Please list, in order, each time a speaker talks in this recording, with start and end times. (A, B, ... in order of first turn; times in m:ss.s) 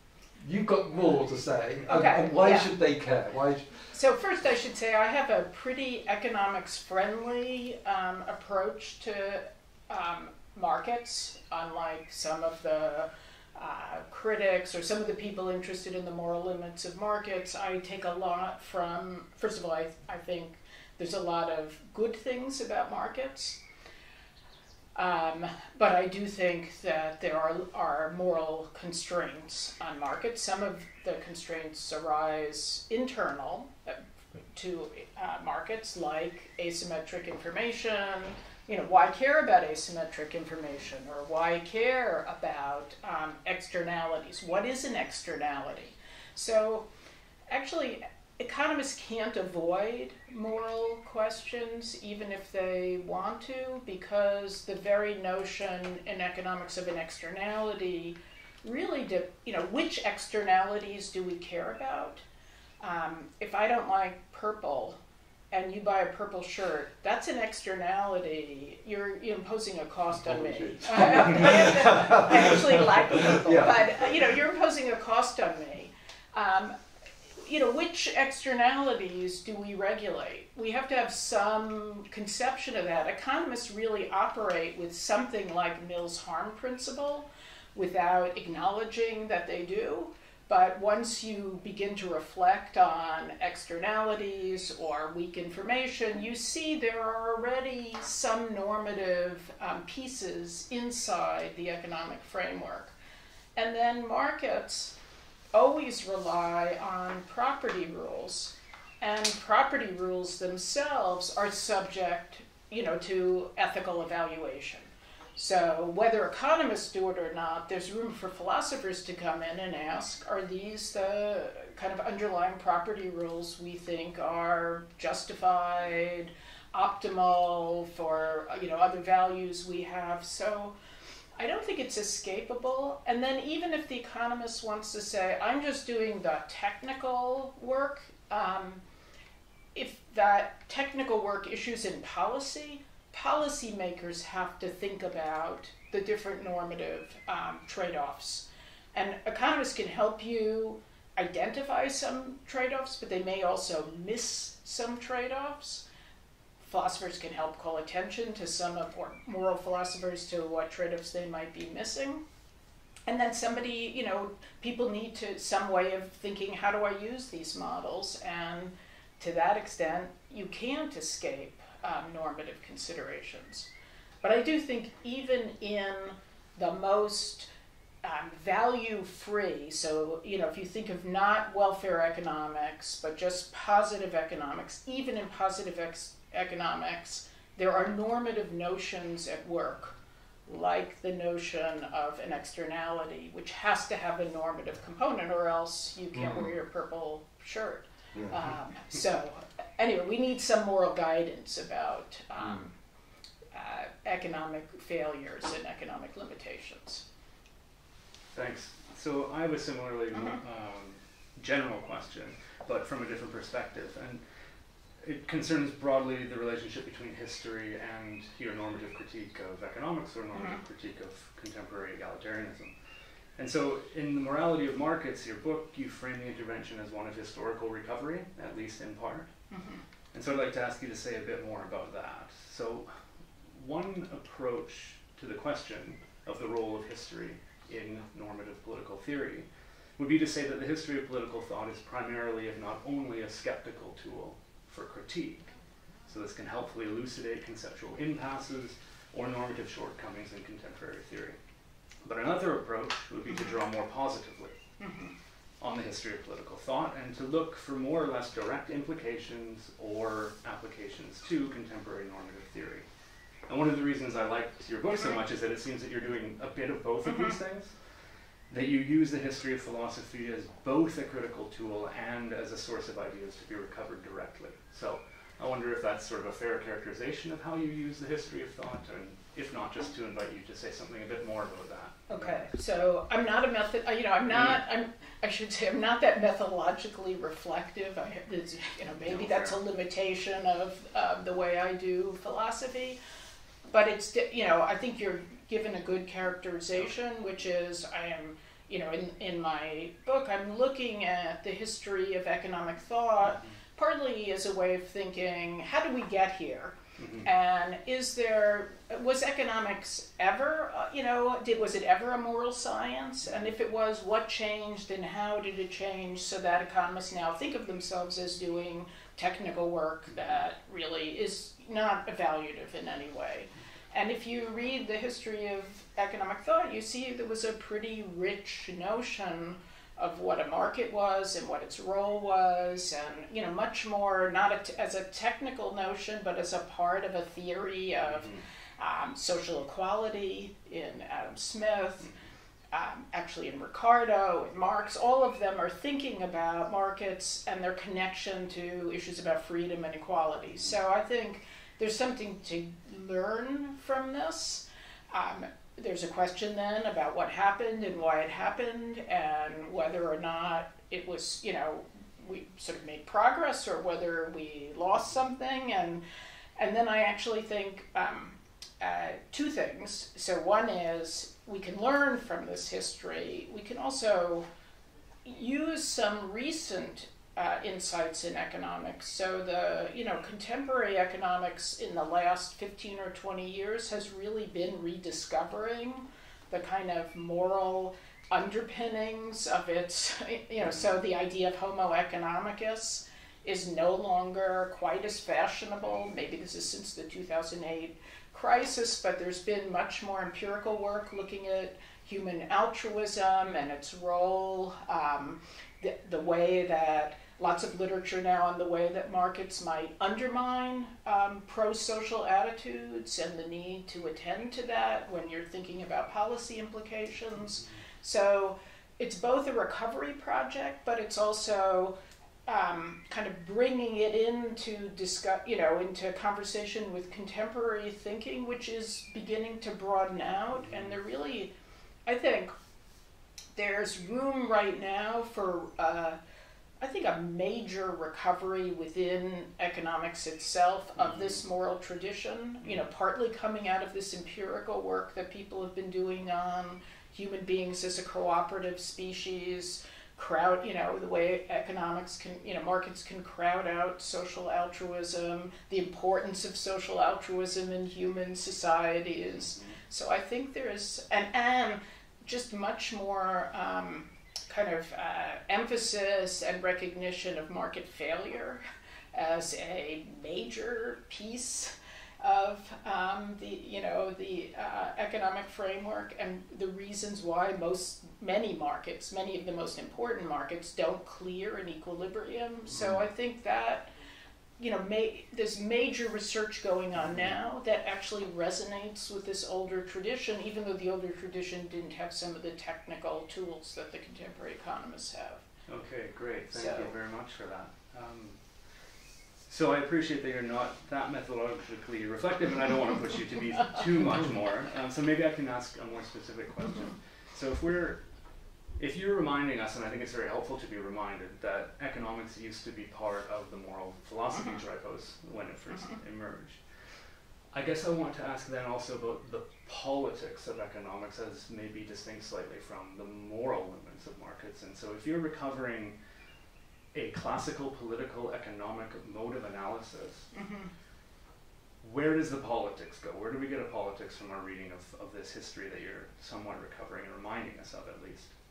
0:00.4-0:03.7 A
0:01.9-0:02.7 B
0:03.9-0:23.6 B
0:25.0-0:34.0 B
0:34.5-0:46.9 B
0:47.5-1:02.2 B
1:02.8-1:05.0 B
1:05.5-1:16.7 B
1:10.4-1:13.9 A
1:17.4-1:42.9 B
1:43.6-1:45.0 B
1:45.5-2:10.7 B
2:11.4-2:18.8 B
2:19.7-2:35.8 B
2:36.6-2:42.2 B
2:43.1-2:53.7 B
2:54.2-2:57.5 B
2:58.0-3:09.9 B
3:10.4-3:22.7 B
3:23.5-3:27.0 B
3:28.3-3:34.2 C
3:35.0-3:42.7 C
3:40.3-3:40.6 B
3:43.4-3:49.3 C
3:49.5-3:49.8 B
3:50.1-3:52.9 C
3:53.5-3:59.4 C
4:00.0-4:05.4 C
4:06.1-4:11.4 C
4:12.0-4:14.5 C
4:14.8-4:15.1 B
4:15.6-4:22.8 C
4:23.5-4:27.7 C
4:28.5-4:42.4 C
4:42.1-4:53.0 B
4:44.3-4:44.6 C
4:49.0-4:49.5 C
4:53.7-5:42.1 B
5:07.0-5:07.3 C
5:38.1-5:38.4 C
5:42.7-6:06.0 B
6:06.6-6:14.4 B
6:15.2-7:01.9 B
7:02.4-7:11.5 B
7:12.0-7:12.5 B
7:13.6-7:16.2 B
7:16.8-7:48.6 B
7:21.0-7:21.4 C
7:49.1-8:03.9 B
8:02.7-8:03.0 C
8:04.6-8:15.4 B
8:15.7-8:18.4 C
8:16.5-8:16.9 B
8:19.5-8:28.0 C
8:28.8-8:36.6 C
8:37.5-8:46.0 C
8:46.9-8:50.3 C
8:50.3-8:50.7 B
8:51.8-8:58.3 C